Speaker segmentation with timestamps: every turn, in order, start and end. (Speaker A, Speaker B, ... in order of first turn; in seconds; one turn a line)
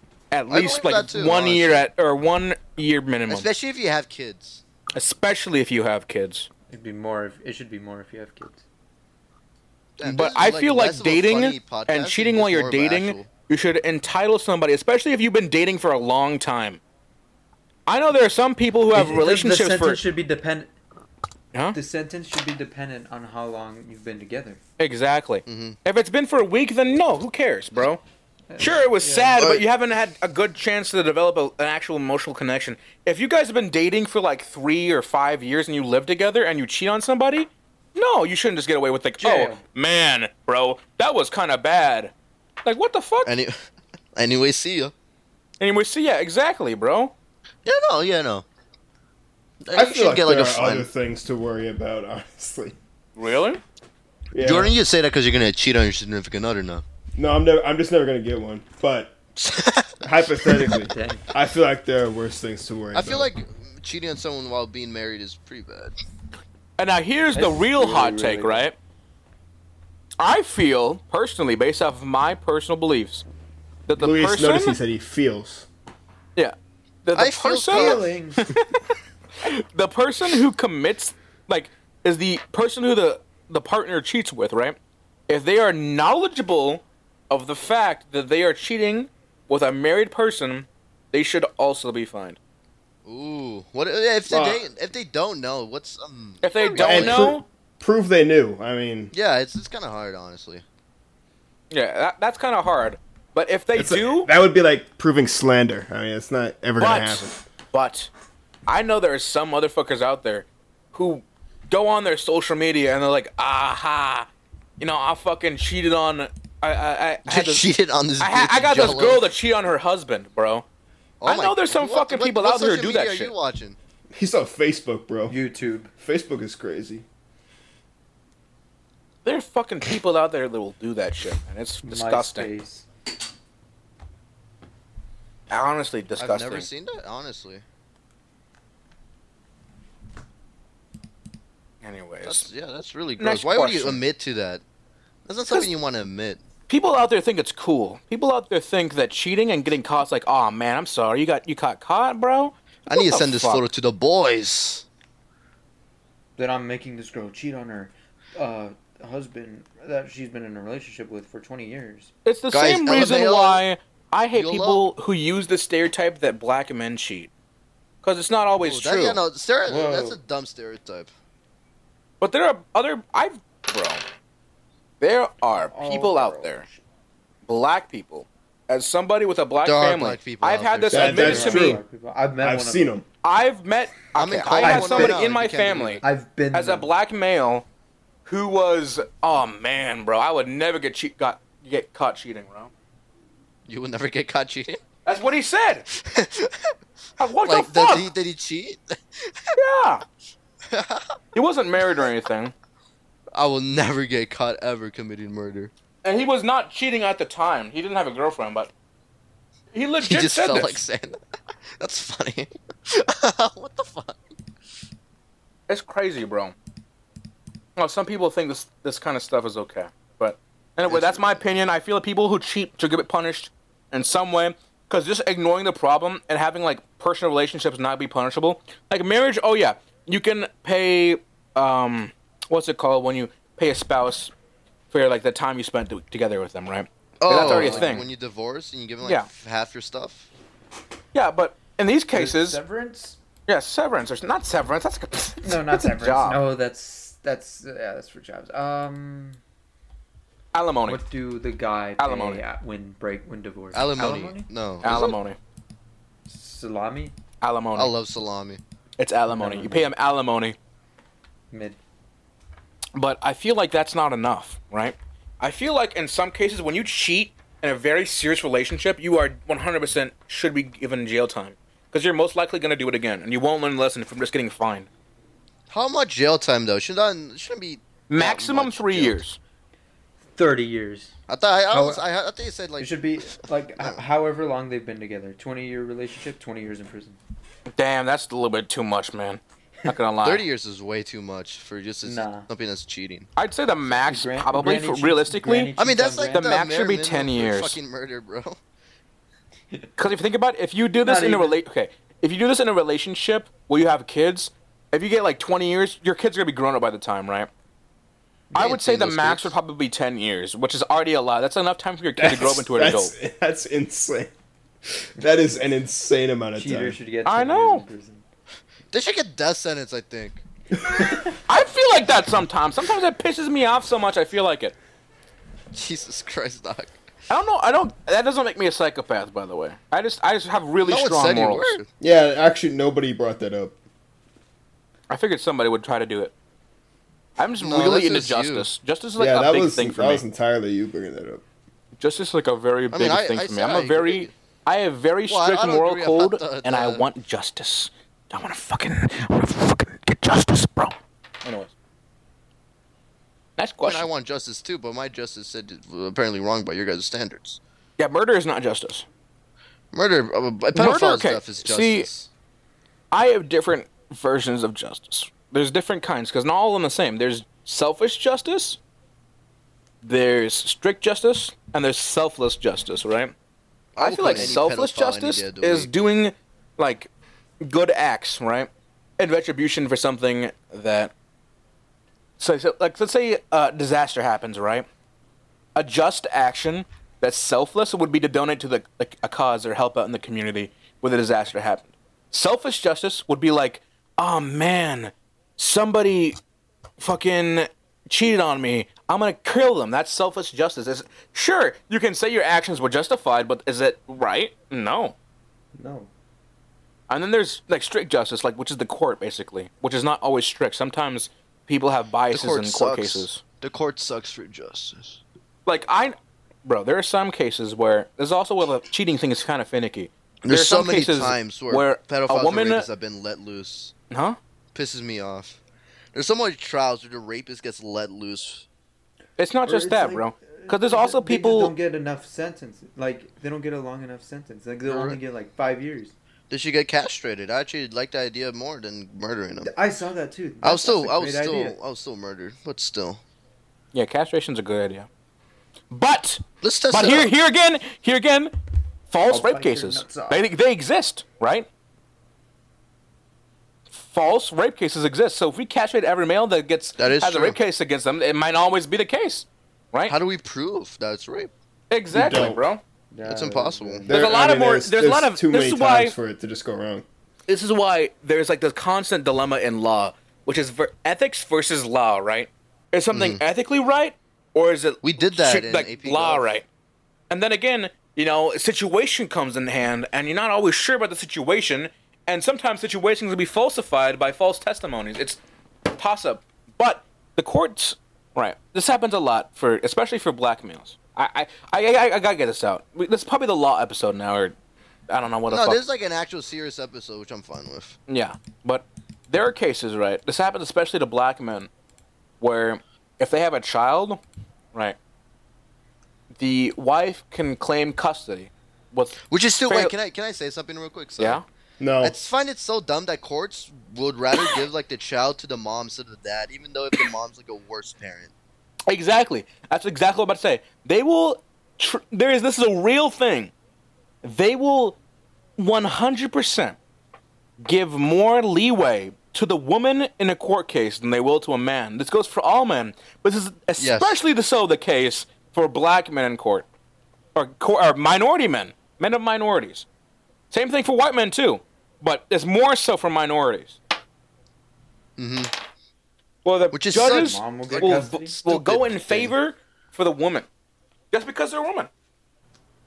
Speaker A: 0.3-3.5
Speaker B: 0.5-1.9
Speaker B: 3.3-4.6
Speaker A: 4.9-6.5
Speaker C: 6.7-8.6
Speaker B: 10.0-13.3
Speaker A: 10.0-16.8
Speaker A: 17.9-20.0
Speaker C: 18.9-20.7
Speaker A: 21.5-21.8
Speaker C: 21.7-24.6
Speaker A: 24.8-28.0
Speaker B: 25.4-25.8
Speaker C: 28.5-29.4
Speaker A: 28.6-42.1
Speaker B: 29.4-29.6
Speaker C: 39.2-39.6
Speaker A: 42.6-43.3
Speaker B: 43.2-43.5
Speaker B: 44.1-44.9
Speaker A: 45.6-47.1
Speaker B: 47.6-48.4
Speaker B: 49.6-50.9
Speaker D: 49.7-52.8
Speaker A: 53.1-53.6
Speaker D: 54.3-54.7
Speaker B: 54.4-56.8
Speaker D: 57.1-59.2
Speaker B: 59.4-60.8
Speaker D: 60.0-63.3
Speaker C: 60.8-61.3
Speaker B: 62.9-66.0
Speaker A: 66.8-68.7
Speaker C: 67.3-68.7
Speaker A: 70.2-73.2
Speaker A: 73.9-74.8
Speaker D: 74.0-75.7
Speaker A: 76.3-78.8
Speaker B: 77.1-78.1
Speaker C: 77.7-78.5
Speaker A: 79.4-84.8
Speaker A: 85.3-92.4
Speaker B: 93.0-97.3
Speaker D: 94.3-94.6
Speaker A: 96.4-97.4
Speaker D: 96.8-99.1
Speaker B: 99.1-100.6
Speaker A: 101.7-104.3
Speaker D: 103.7-107.4
Speaker A: 106.8-108.1
Speaker A: 108.7-114.3
Speaker A: 114.8-120.7
Speaker B: 117.3-119.2
Speaker B: 121.2-123.8
Speaker A: 121.2-123.3
Speaker D: 124.1-125.3
Speaker C: 125.3-125.9
Speaker D: 126.0-127.0
Speaker A: 129.2-132.5
Speaker C: 131.8-132.8
Speaker A: 135.5-136.7
Speaker B: 136.2-137.6
Speaker A: 141.8-142.5
Speaker B: 142.2-144.6
Speaker A: 143.2-144.0
Speaker B: 145.2-146.4
Speaker A: 146.7-153.7
Speaker B: 152.9-154.8
Speaker C: 156.4-162.1
Speaker A: 162.2-167.3
Speaker B: 162.5-163.6
Speaker B: 164.3-164.8
Speaker A: 168.0-169.2
Speaker B: 168.6-171.1
Speaker C: 169.7-170.2
Speaker A: 172.2-174.0
Speaker A: 175.0-176.6
Speaker C: 175.7-176.8
Speaker A: 177.5-181.8
Speaker B: 179.6-181.3
Speaker D: 180.9-181.8
Speaker C: 181.0-182.9
Speaker D: 182.4-183.0
Speaker A: 183.2-187.7
Speaker B: 184.1-186.0
Speaker C: 184.6-185.2
Speaker C: 186.0-186.9
Speaker A: 188.2-192.7
Speaker B: 193.7-194.8
Speaker A: 195.0-195.8
Speaker B: 195.9-196.7
Speaker A: 197.2-198.1
Speaker B: 197.4-199.5
Speaker A: 199.6-200.0
Speaker B: 200.7-201.2
Speaker A: 201.3-202.5
Speaker B: 203.3-205.7
Speaker A: 206.0-208.7
Speaker A: 209.7-210.8
Speaker B: 210.0-211.2
Speaker B: 211.8-214.2
Speaker A: 215.7-216.5
Speaker A: 217.8-234.3
Speaker B: 220.9-221.4
Speaker A: 234.9-238.1
Speaker B: 237.2-240.3
Speaker C: 237.3-238.0
Speaker A: 239.0-239.3
Speaker A: 241.1-242.6
Speaker C: 242.1-243.2
Speaker A: 243.5-246.4
Speaker C: 245.4-249.4
Speaker A: 250.5-251.0
Speaker C: 250.8-254.5
Speaker A: 252.0-252.4
Speaker B: 253.7-255.2
Speaker A: 254.8-255.4
Speaker C: 256.3-257.1
Speaker A: 257.4-257.9
Speaker B: 257.7-258.6
Speaker A: 259.0-260.6
Speaker C: 259.3-259.9
Speaker C: 261.5-261.8
Speaker A: 262.9-274.9
Speaker B: 275.7-279.2
Speaker A: 278.1-279.4
Speaker C: 280.3-281.1
Speaker B: 281.3-284.0
Speaker C: 281.7-282.0
Speaker C: 282.8-287.2
Speaker A: 287.7-290.4
Speaker B: 290.2-293.3
Speaker C: 292.0-292.5
Speaker A: 293.4-295.7
Speaker C: 294.0-296.6
Speaker B: 295.8-298.6
Speaker A: 296.3-297.8
Speaker A: 300.0-307.5
Speaker C: 301.0-301.6
Speaker A: 308.5-313.1
Speaker B: 308.6-309.5
Speaker D: 312.1-314.3
Speaker D: 314.9-317.0
Speaker C: 315.2-315.5
Speaker C: 316.5-318.2
Speaker A: 317.2-317.8
Speaker B: 318.9-320.4
Speaker A: 321.4-324.8
Speaker B: 325.7-326.9
Speaker A: 327.3-331.8
Speaker B: 330.8-331.9
Speaker D: 332.0-333.8
Speaker A: 335.1-336.3
Speaker A: 337.4-340.2
Speaker B: 337.6-338.7
Speaker D: 339.2-341.4
Speaker A: 342.0-351.7
Speaker B: 342.9-344.3
Speaker B: 345.3-347.0
Speaker A: 353.6-354.1
Speaker B: 353.8-357.6
Speaker A: 358.0-359.1
Speaker B: 359.9-362.3
Speaker A: 360.7-362.1
Speaker A: 363.1-368.8
Speaker A: 370.0-373.3
Speaker B: 373.9-375.9
Speaker A: 374.0-377.1
Speaker A: 377.6-381.1
Speaker A: 382.4-384.9
Speaker A: 385.8-396.4
Speaker A: 397.0-405.1
Speaker C: 405.8-406.1
Speaker A: 407.1-413.4
Speaker B: 412.3-415.2
Speaker A: 415.6-422.9
Speaker B: 420.4-423.9
Speaker A: 424.1-424.4
Speaker B: 424.7-425.6
Speaker B: 426.1-428.6
Speaker A: 429.4-431.7
Speaker C: 429.6-436.1
Speaker B: 434.9-435.2
Speaker B: 436.5-439.7
Speaker C: 439.6-441.8
Speaker B: 440.6-443.2
Speaker A: 443.9-445.1
Speaker A: 445.9-448.5
Speaker B: 446.6-447.3
Speaker A: 449.1-451.7
Speaker C: 449.3-450.4
Speaker A: 453.9-460.1
Speaker B: 457.0-457.6
Speaker B: 460.1-461.5
Speaker A: 461.9-462.8
Speaker D: 462.1-462.6
Speaker C: 463.1-464.2
Speaker B: 463.2-464.1
Speaker D: 464.1-467.0
Speaker A: 464.1-466.1
Speaker A: 467.5-476.6
Speaker B: 473.1-473.4
Speaker B: 475.0-476.5
Speaker A: 477.3-494.5
Speaker A: 495.1-495.8
Speaker B: 495.5-498.0
Speaker A: 498.1-501.7
Speaker A: 502.4-504.2
Speaker A: 506.3-509.9
Speaker B: 509.3-511.4
Speaker A: 511.2-511.4
Speaker D: 511.8-512.1
Speaker B: 512.0-518.3
Speaker A: 518.9-523.5
Speaker A: 524.2-525.0
Speaker A: 525.6-526.8
Speaker A: 527.6-536.6
Speaker B: 533.8-534.1
Speaker A: 537.3-539.9
Speaker A: 540.5-543.8
Speaker B: 545.2-545.5
Speaker A: 546.4-550.5
Speaker B: 546.7-549.3
Speaker C: 546.9-548.4
Speaker A: 551.1-551.9